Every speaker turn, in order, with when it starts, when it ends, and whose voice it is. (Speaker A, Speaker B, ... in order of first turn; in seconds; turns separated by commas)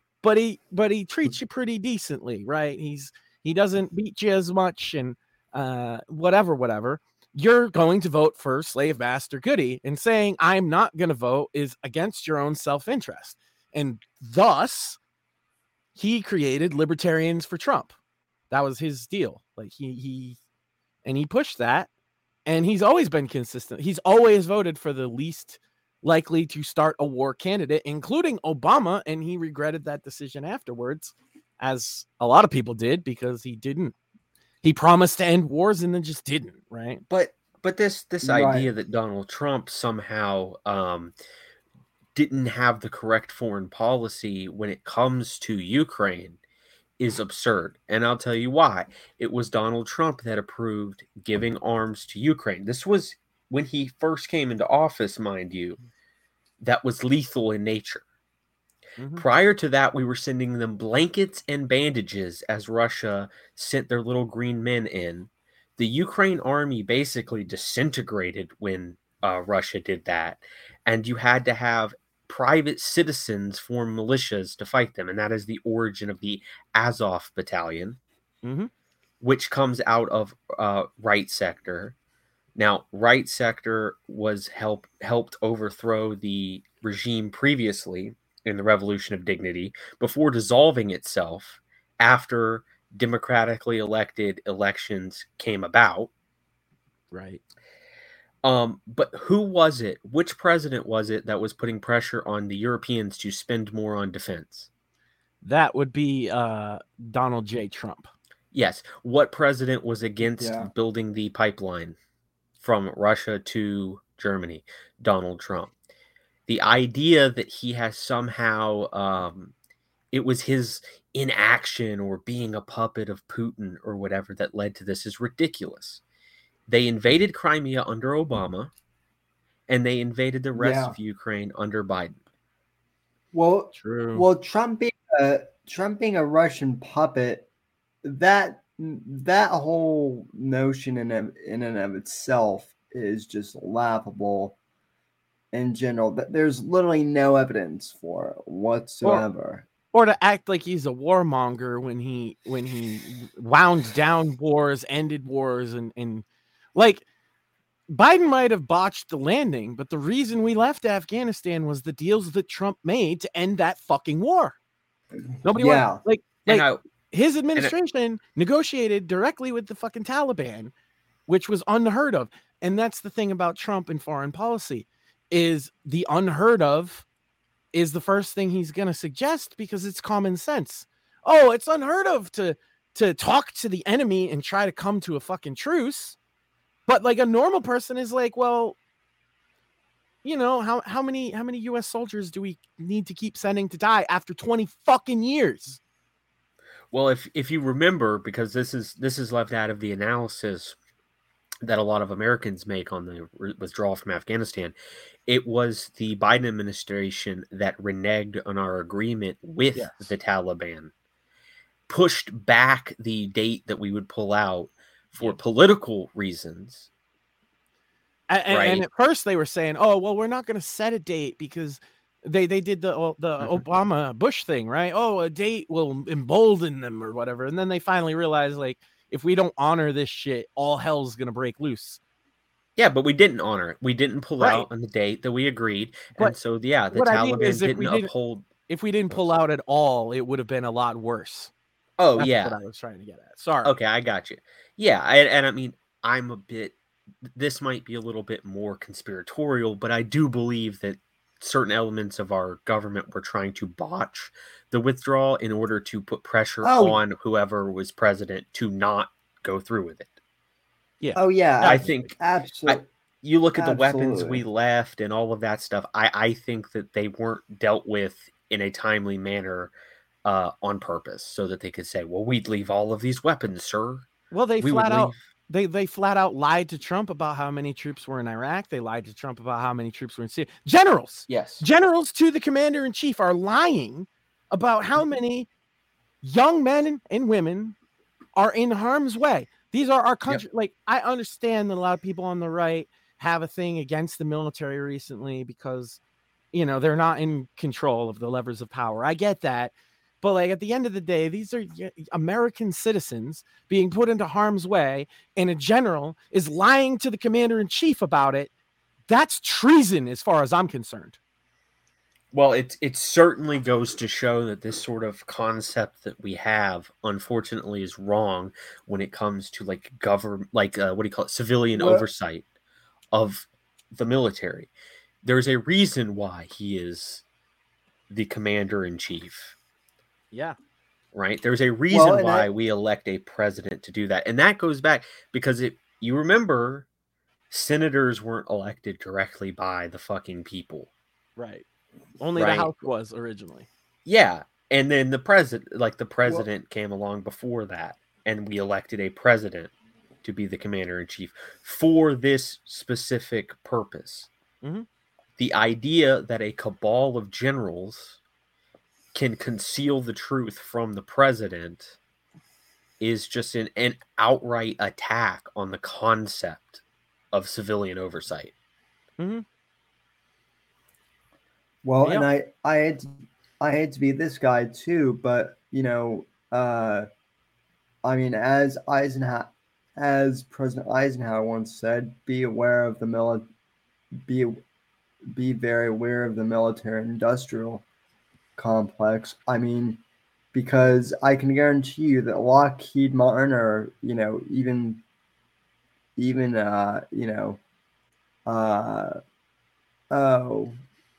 Speaker A: 0.2-15.0, Speaker A: 15.9-17.9, Speaker A: 18.5-20.4, Speaker A: 21.0-21.9, Speaker A: 22.4-33.9, Speaker A: 34.6-37.0, Speaker B: 37.1-41.1, Speaker C: 38.2-38.7, Speaker B: 42.1-46.4, Speaker B: 47.0-55.8, Speaker B: 56.6-58.0, Speaker A: 59.0-59.2, Speaker B: 59.1-78.0, Speaker A: 78.4-78.7, Speaker B: 79.2-81.9, Speaker B: 82.5-96.1, Speaker A: 97.1-97.4, Speaker B: 98.4-104.7, Speaker A: 105.4-108.1, Speaker B: 108.5-112.0, Speaker C: 110.2-110.7, Speaker B: 112.6-115.7, Speaker B: 116.5-119.5, Speaker B: 120.1-126.0, Speaker B: 126.7-128.7, Speaker B: 129.7-132.2, Speaker C: 130.5-130.9, Speaker C: 133.3-137.5, Speaker A: 133.7-134.2, Speaker C: 138.0-144.6, Speaker C: 145.5-149.7, Speaker A: 149.9-157.0, Speaker A: 157.9-164.6, Speaker A: 165.4-170.7, Speaker C: 165.5-166.0, Speaker B: 166.4-166.8, Speaker A: 171.3-177.0, Speaker A: 177.7-186.2, Speaker A: 186.9-188.8, Speaker A: 190.2-195.8, Speaker B: 196.9-200.8, Speaker B: 201.6-204.7, Speaker B: 205.3-210.9, Speaker A: 209.7-210.1, Speaker B: 211.9-216.9, Speaker A: 218.3-232.0, Speaker B: 218.5-218.8, Speaker B: 232.8-238.5, Speaker A: 234.4-234.7, Speaker A: 236.9-238.1, Speaker A: 238.7-241.5, Speaker B: 242.0-242.6, Speaker A: 242.2-243.7, Speaker B: 243.6-260.1, Speaker C: 256.6-257.0, Speaker A: 261.0-262.1, Speaker C: 261.1-262.9, Speaker B: 261.6-262.1, Speaker B: 262.7-269.7, Speaker C: 263.6-264.4, Speaker B: 270.2-274.1, Speaker A: 274.3-285.5, Speaker B: 274.6-275.2, Speaker B: 281.3-281.6, Speaker A: 286.2-287.8, Speaker A: 288.4-296.0, Speaker A: 296.5-308.5, Speaker A: 309.1-311.2, Speaker B: 312.3-322.4, Speaker C: 321.8-322.1, Speaker B: 323.1-324.7, Speaker B: 325.2-327.2, Speaker B: 328.1-329.6, Speaker B: 331.1-336.9, Speaker C: 331.9-332.5, Speaker B: 337.5-340.9, Speaker A: 341.4-341.6, Speaker A: 342.2-343.7, Speaker B: 342.3-342.8, Speaker B: 344.1-354.3, Speaker A: 354.6-354.9, Speaker B: 355.4-358.2, Speaker B: 359.1-362.0, Speaker B: 363.0-366.8, Speaker B: 367.3-368.5, Speaker A: 369.2-369.4, Speaker C: 371.8-377.1, Speaker C: 378.0-383.5, Speaker C: 384.2-384.6, Speaker C: 385.3-387.8, Speaker C: 388.6-390.0, Speaker C: 390.5-395.0, Speaker C: 396.2-397.6, Speaker C: 398.4-399.1, Speaker C: 400.1-400.8